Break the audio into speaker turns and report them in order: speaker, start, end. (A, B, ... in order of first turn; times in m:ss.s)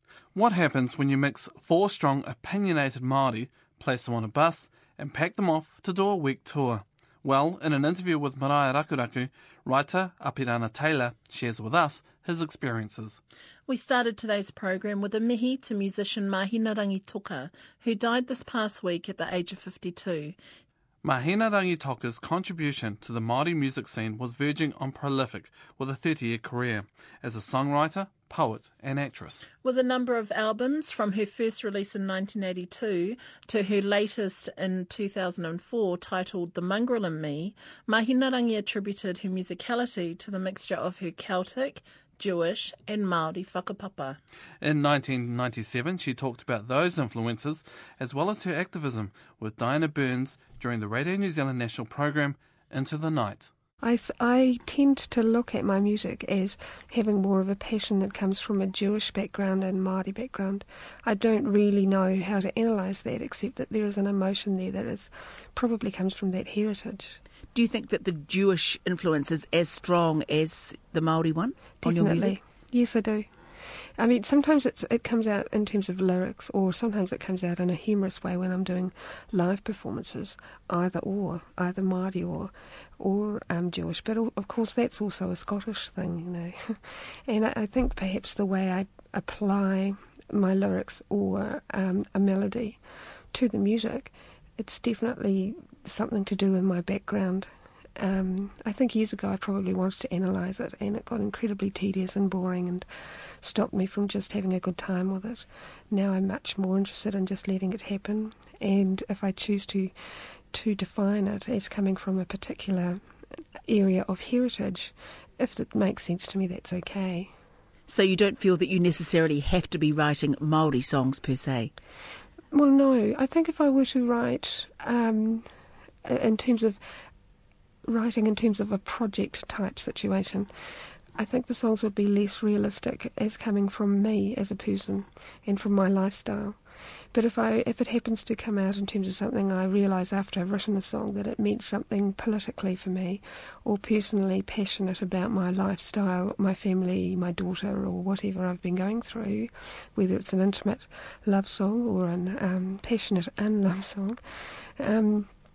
0:00.3-0:13.2 A
0:13.7-0:20.4 B
0:21.0-0:29.4 A
0:29.6-0:44.2 B
0:44.6-0:53.5 A
0:53.8-1:07.2 C
1:07.5-1:12.4 D
1:11.8-1:53.0 C
1:53.6-1:57.3 C
1:57.9-2:01.7 D
2:02.5-2:05.5 C
2:06.0-2:07.0 C
2:07.8-2:16.6 C
2:17.1-2:35.3 C